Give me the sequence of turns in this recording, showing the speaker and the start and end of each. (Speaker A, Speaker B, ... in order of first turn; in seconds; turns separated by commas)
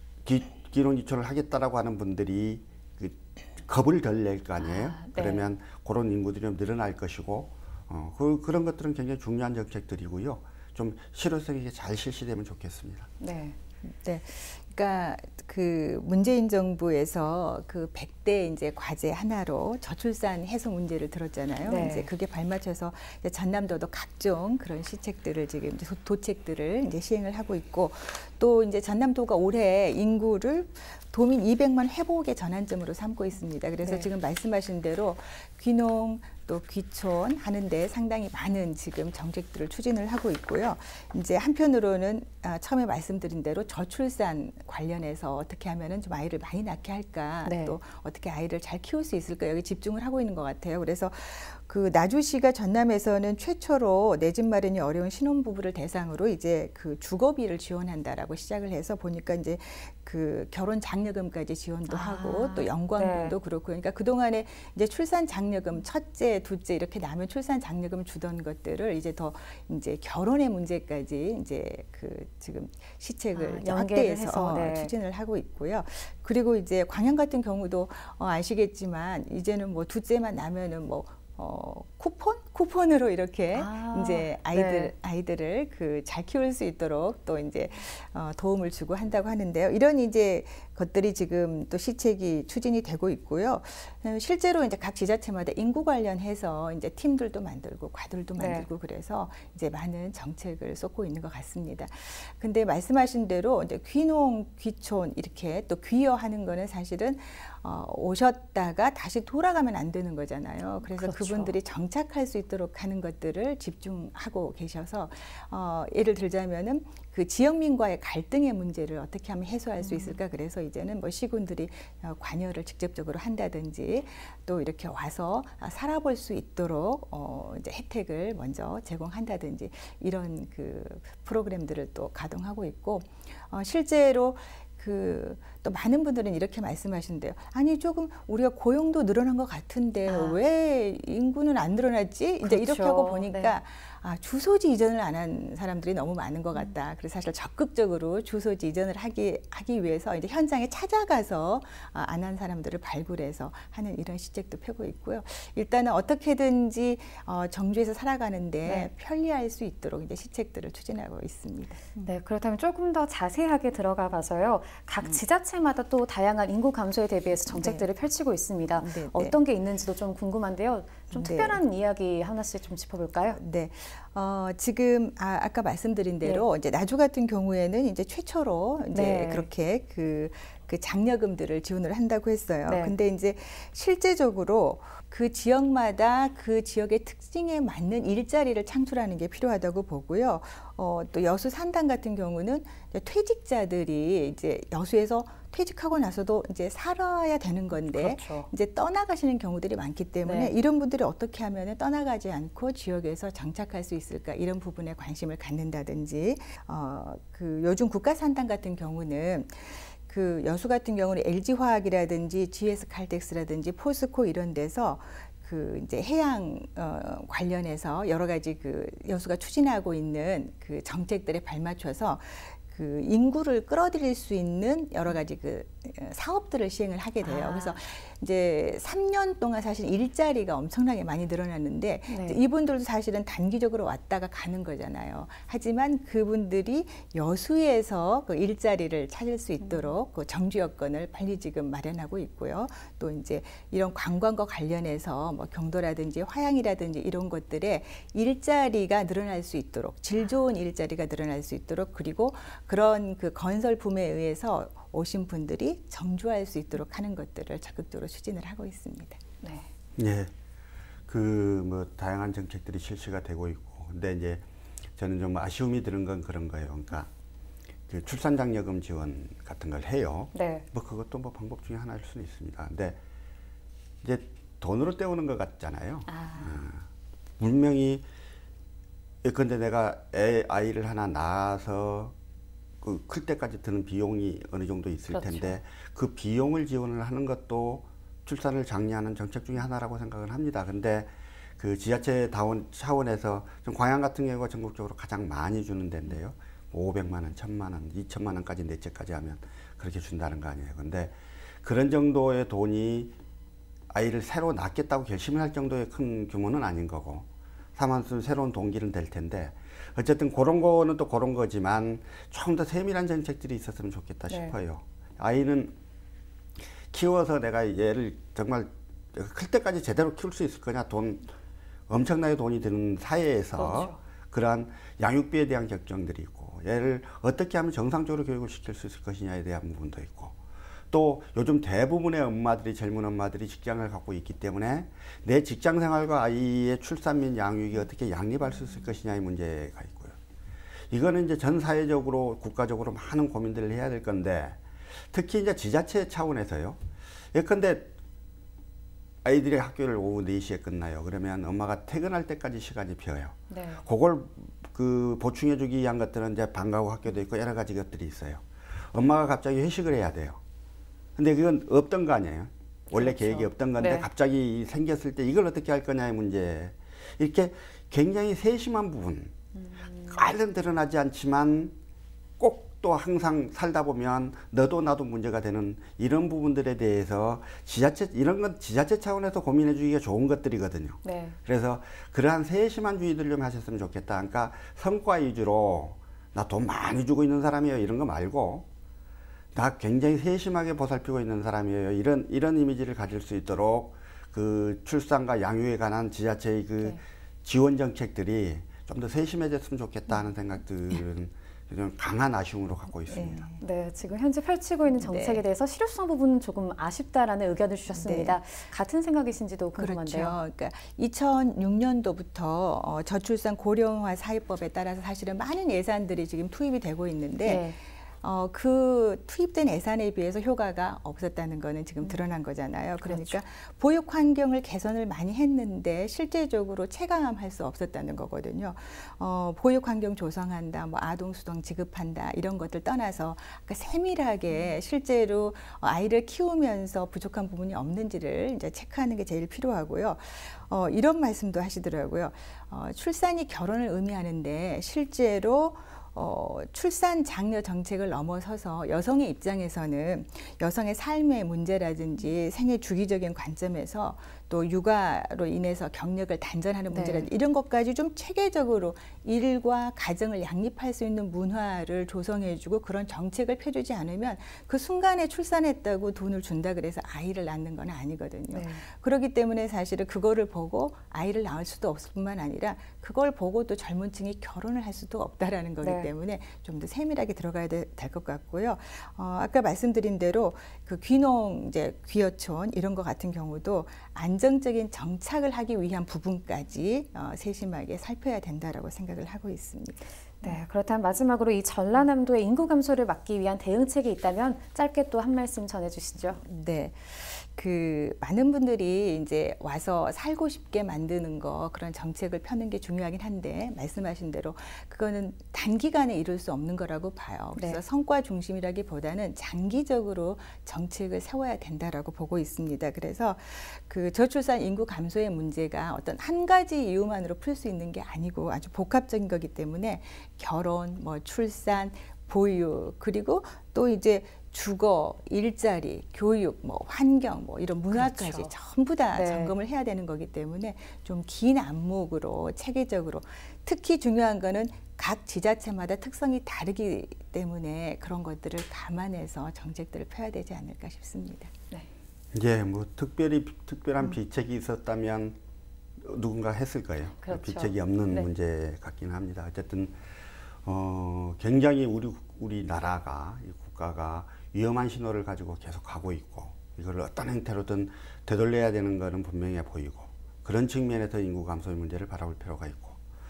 Speaker A: 0.2-13.1, Speaker B: 4.6-5.5, Speaker B: 13.2-13.6, Speaker C: 13.8-162.1, Speaker B: 21.6-22.1, Speaker B: 33.8-34.1, Speaker B: 47.5-47.8, Speaker B: 61.9-63.4, Speaker B: 73.3-74.9, Speaker B: 83.5-84.9, Speaker B: 98.4-98.7, Speaker B: 110.8-111.5, Speaker B: 119.8-120.2, Speaker B: 140.1-140.4, Speaker B: 142.4-143.6, Speaker B: 162.0-173.4, Speaker C: 167.5-167.9, Speaker C: 168.8-169.4, Speaker C: 171.1-171.6, Speaker C: 173.3-259.2, Speaker B: 178.9-179.5, Speaker B: 182.7-182.9, Speaker B: 197.9-198.5, Speaker B: 200.2-200.5, Speaker B: 227.2-227.8, Speaker B: 232.1-232.4, Speaker B: 239.6-239.9, Speaker B: 259.4-259.7, Speaker A: 260.0-260.3, Speaker A: 261.1-264.4, Speaker A: 265.0-267.1, Speaker A: 267.9-273.0, Speaker B: 270.3-270.6, Speaker A: 274.0-276.8, Speaker B: 276.1-276.6, Speaker A: 277.4-278.1, Speaker A: 279.2-282.1, Speaker A: 282.8-303.1, Speaker B: 285.1-285.6, Speaker A: 303.9-315.8, Speaker B: 314.3-314.5, Speaker A: 316.9-321.3, Speaker A: 321.9-330.4, Speaker B: 323.6-324.0, Speaker A: 330.9-340.2, Speaker A: 340.9-344.6, Speaker A: 345.1-346.8, Speaker A: 347.3-347.9, Speaker A: 349.2-360.4, Speaker B: 353.5-353.8, Speaker A: 361.2-369.4, Speaker B: 362.9-364.1, Speaker B: 369.6-370.1, Speaker A: 370.0-371.8, Speaker A: 372.4-388.7, Speaker B: 381.0-381.4, Speaker A: 389.5-403.5, Speaker C: 403.1-403.6, Speaker B: 403.6-410.4, Speaker C: 404.9-405.4, Speaker C: 407.9-408.4, Speaker C: 409.8-490.1, Speaker B: 417.4-417.8, Speaker B: 423.1-423.4, Speaker B: 456.9-457.3, Speaker B: 468.5-468.8, Speaker B: 475.8-476.1, Speaker B: 490.4-496.4, Speaker C: 496.4-541.5, Speaker B: 507.6-507.8, Speaker B: 527.9-528.5, Speaker B: 529.1-529.5, Speaker A: 542.3-545.4, Speaker A: 546.0-550.0, Speaker B: 547.2-548.3, Speaker A: 550.6-563.0